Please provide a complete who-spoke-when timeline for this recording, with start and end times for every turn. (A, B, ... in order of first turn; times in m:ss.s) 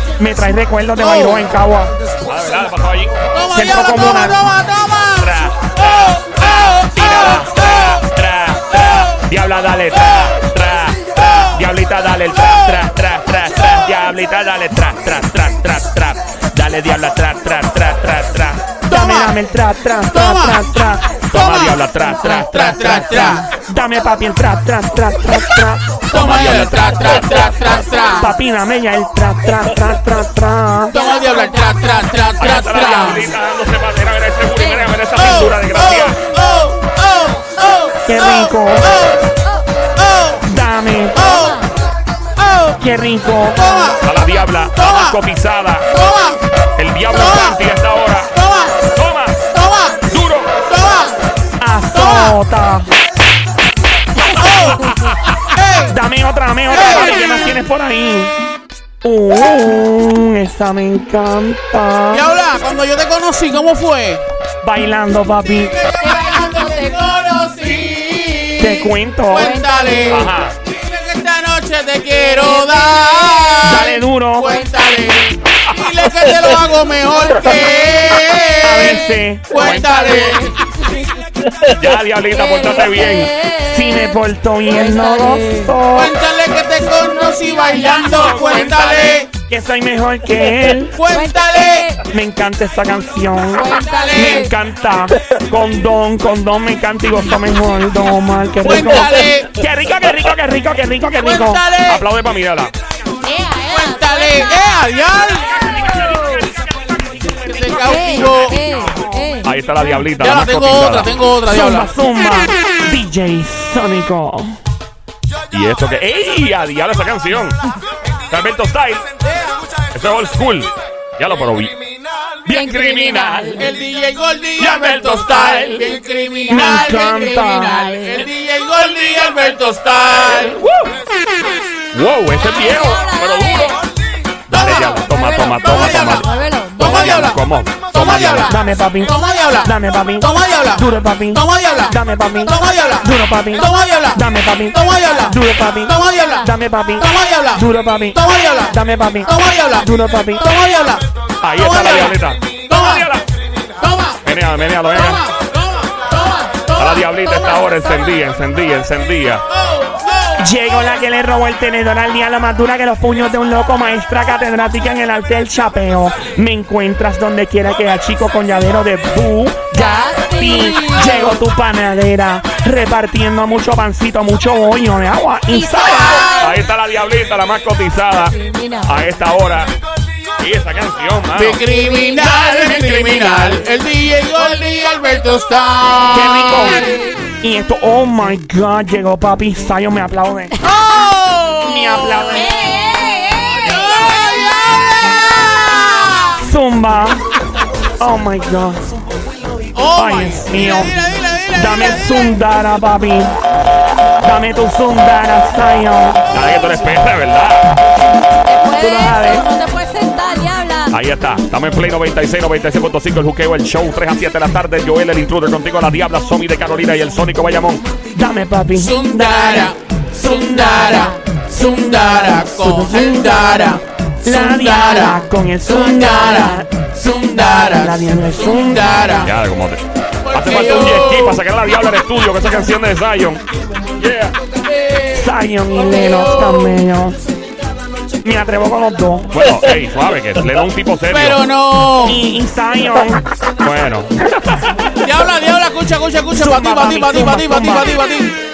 0:00.2-0:02.0 A
0:01.0-0:01.5 B
0:02.2-0:03.2 C
0:03.3-0:08.0 B
0:03.5-0:04.5 A
0:05.2-0:18.8 C
0:08.8-0:09.2 B
0:09.9-0:10.4 B
0:12.5-0:12.7 B
0:18.9-0:19.4 B
0:18.9-0:21.2 A
0:20.1-0:20.6 B
0:21.3-0:23.1 C
0:21.3-0:23.4 B
0:22.4-0:26.0 A
0:26.1-0:28.3 B
0:26.1-0:27.6 C
0:27.5-0:28.3 D
0:28.2-0:31.0 A
0:30.9-0:33.3 B
0:31.0-0:33.2 D
0:32.4-0:36.2 C
0:34.6-0:35.0 D
0:35.1-0:39.4 B
0:38.0-0:38.9 A
0:40.0-0:40.4 B
0:40.4-0:41.3 A
0:41.1-0:41.6 B
0:41.2-0:41.7 D
0:42.4-0:42.8 B
0:42.8-0:44.0 A
0:43.5-0:44.0 B
0:44.0-0:45.9 C
0:44.7-0:45.2 B
0:45.9-0:46.4 B
0:46.8-0:48.3 C
0:47.1-0:47.6 B
0:48.3-0:48.9 B
0:48.9-0:49.5 C
0:49.5-0:51.2 B
0:50.0-0:50.6 C
0:51.6-0:52.9 A
0:51.9-0:52.4 B
0:54.2-0:56.0 B
0:55.9-0:58.3 A
0:56.7-0:57.2 B
0:59.0-1:02.3 A
1:02.1-1:04.2 B
1:04.6-1:05.8 A
1:05.4-1:20.5 B
1:06.0-1:07.1 D
1:08.6-1:09.6 A
1:09.3-1:10.3 D
1:10.1-1:10.5 C
1:12.1-1:13.8 D
1:13.6-1:14.5 A
1:14.4-1:14.8 D
1:17.1-1:17.9 D
1:18.6-1:19.7 A
1:19.6-1:20.4 C
1:21.7-1:23.3 C
1:22.3-1:25.8 D
1:23.6-1:26.2 A
1:25.9-1:29.3 B
1:27.0-1:28.9 D
1:28.0-1:29.2 C
1:29.5-1:31.0 A
1:30.9-1:31.9 B
1:31.1-1:32.0 D
1:32.1-1:41.7 A
1:33.6-1:34.5 D
1:33.8-1:34.5 B
1:38.6-1:39.5 B
1:41.2-1:42.0 B
1:41.8-1:42.7 C
1:43.2-1:44.6 D
1:43.7-1:46.2 B
1:47.3-1:48.6 B
1:47.8-1:49.5 D
1:49.4-1:51.2 C
1:50.2-1:51.9 B
1:51.5-1:54.5 A
1:55.5-1:57.6 C
1:58.3-1:59.0 C
1:59.9-2:01.8 C
2:02.4-2:03.7 C
2:02.5-2:03.6 D
2:03.5-2:10.6 B
2:04.6-2:05.9 A
2:04.8-2:05.1 C
2:06.5-2:08.2 A
2:10.5-2:10.9 C
2:11.9-2:13.8 C
2:12.4-2:13.8 D
2:14.5-2:18.5 C
2:14.5-2:15.0 B
2:14.6-2:17.4 D
2:15.6-2:16.3 B
2:16.8-2:31.0 B
2:18.0-2:18.5 D
2:18.4-2:30.5 A
2:31.4-2:33.2 C
2:31.6-2:33.1 B
2:33.8-2:34.2 B
2:34.2-2:35.2 C
2:34.9-2:37.6 B
2:36.8-2:39.4 C
2:37.8-2:38.1 D
2:39.5-2:40.5 B
2:40.4-2:56.3 A
2:49.7-2:51.4 D
2:55.5-2:56.6 D
2:56.0-2:56.4 B
2:56.3-2:59.7 C
2:58.3-2:59.0 D
3:00.4-3:01.6 C
3:01.3-3:07.0 B
3:01.6-3:03.6 D
3:06.0-3:07.2 D
3:06.1-3:06.9 A
3:07.4-3:10.5 A
3:10.6-3:16.4 B
3:11.6-3:12.6 A
3:12.3-3:13.9 D
3:16.4-3:17.2 A
3:18.0-3:18.9 A
3:19.7-3:22.4 B
3:19.9-3:21.0 A
3:21.5-3:23.4 A
3:24.2-3:26.2 A
3:26.3-3:27.8 C
3:28.4-3:30.9 D
3:28.8-3:29.5 A
3:30.9-3:37.8 C
3:38.1-3:41.0 A
3:38.7-3:49.3 B
3:40.8-3:41.2 D
3:42.3-3:46.7 A
3:47.2-3:49.2 A
3:49.2-3:53.4 C
3:50.2-3:51.4 B
3:54.0-3:54.4 C
3:54.5-3:56.8 B
3:55.1-3:57.2 A
3:58.2-3:59.3 A
3:59.3-4:01.4 C
4:01.1-4:02.2 B
4:02.0-4:03.2 A
4:03.6-4:04.8 C
4:05.0-4:08.4 B
4:06.3-4:07.9 A